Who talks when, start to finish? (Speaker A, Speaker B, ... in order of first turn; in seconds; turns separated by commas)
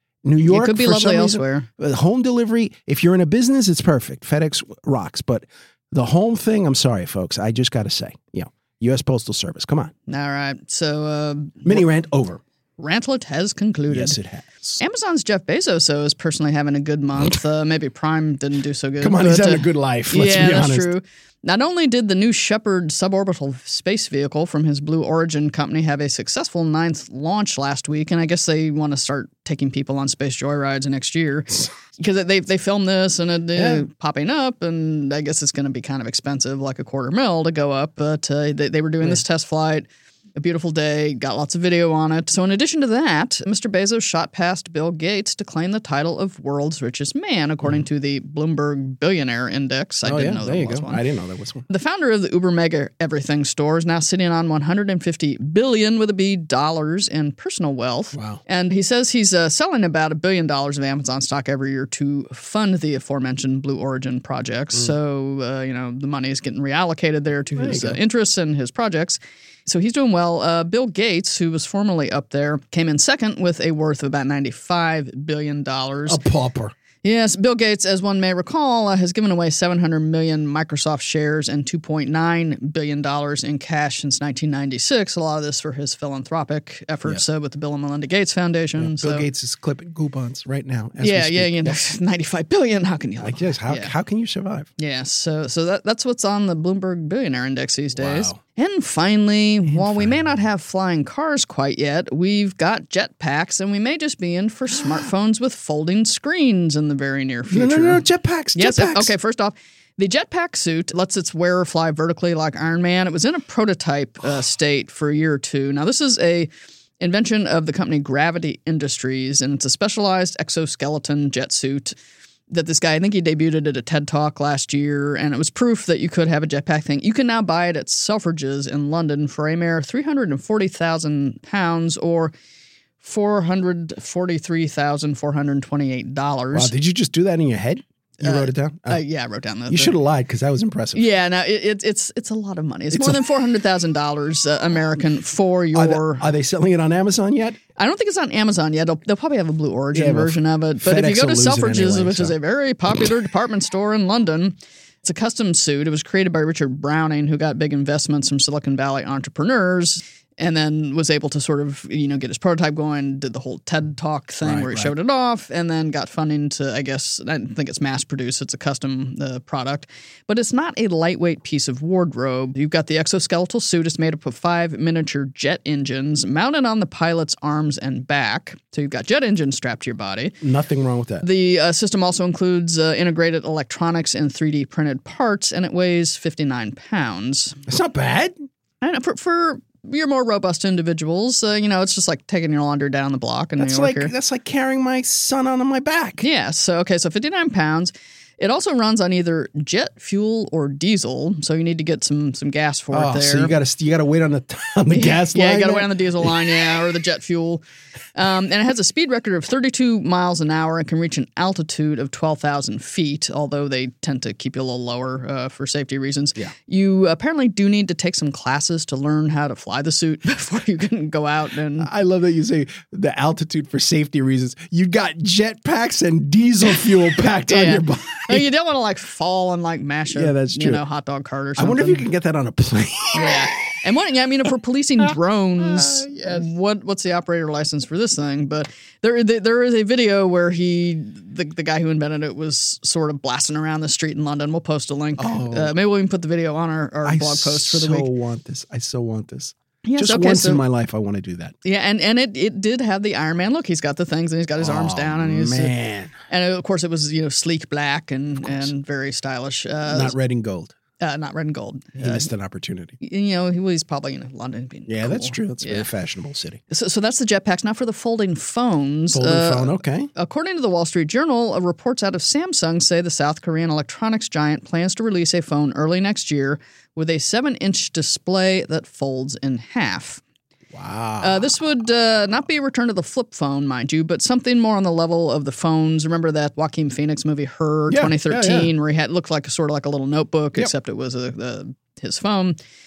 Speaker A: 0.2-9.9, Speaker B: 0.4-1.7, Speaker B: 10.1-11.8, Speaker A: 11.6-12.4, Speaker B: 12.8-14.2, Speaker A: 13.9-14.8, Speaker B: 14.8-51.0, Speaker A: 19.0-20.9, Speaker A: 33.5-33.9, Speaker A: 50.0-51.7, Speaker B: 51.7-76.2, Speaker A: 58.1-58.4, Speaker A: 67.5-68.0, Speaker A: 76.1-76.7, Speaker B: 77.0-89.3, Speaker A: 88.8-91.8, Speaker B: 91.0-93.9, Speaker A: 93.2-94.7, Speaker B: 94.8-116.5, Speaker A: 97.9-98.4, Speaker A: 99.7-100.2, Speaker A: 107.5-109.1, Speaker B: 117.0-121.9, Speaker B: 122.5-132.3, Speaker B: 133.0-136.7, Speaker A: 136.5-139.0, Speaker B: 138.2-139.9, Speaker A: 139.7-141.1, Speaker B: 140.9-146.2, Speaker A: 142.9-143.2, Speaker A: 145.7-147.6, Speaker B: 147.8-180.4, Speaker A: 149.9-152.3, Speaker A: 164.4-164.9, Speaker A: 180.4-181.2, Speaker B: 181.2-187.6, Speaker A: 187.7-188.3, Speaker B: 188.8-194.1, Speaker A: 193.6-196.2, Speaker B: 196.2-203.6, Speaker A: 202.9-206.8, Speaker B: 204.9-207.6, Speaker B: 208.2-221.9, Speaker A: 221.8-228.5, Speaker B: 227.5-232.1, Speaker A: 230.1-230.8, Speaker A: 231.6-233.6, Speaker B: 233.1-248.1, Speaker A: 235.6-236.5, Speaker A: 245.2-245.7, Speaker A: 247.0-251.5, Speaker B: 249.8-250.6, Speaker B: 251.6-255.7, Speaker A: 254.6-256.1, Speaker B: 256.3-260.1, Speaker A: 258.4-258.7, Speaker A: 259.9-260.7, Speaker B: 261.0-262.3, Speaker A: 262.0-263.0, Speaker B: 263.0-265.9, Speaker A: 264.9-266.6, Speaker B: 266.7-280.2, Speaker A: 269.1-270.1, Speaker A: 280.7-281.5, Speaker B: 281.2-292.6, Speaker A: 287.9-288.7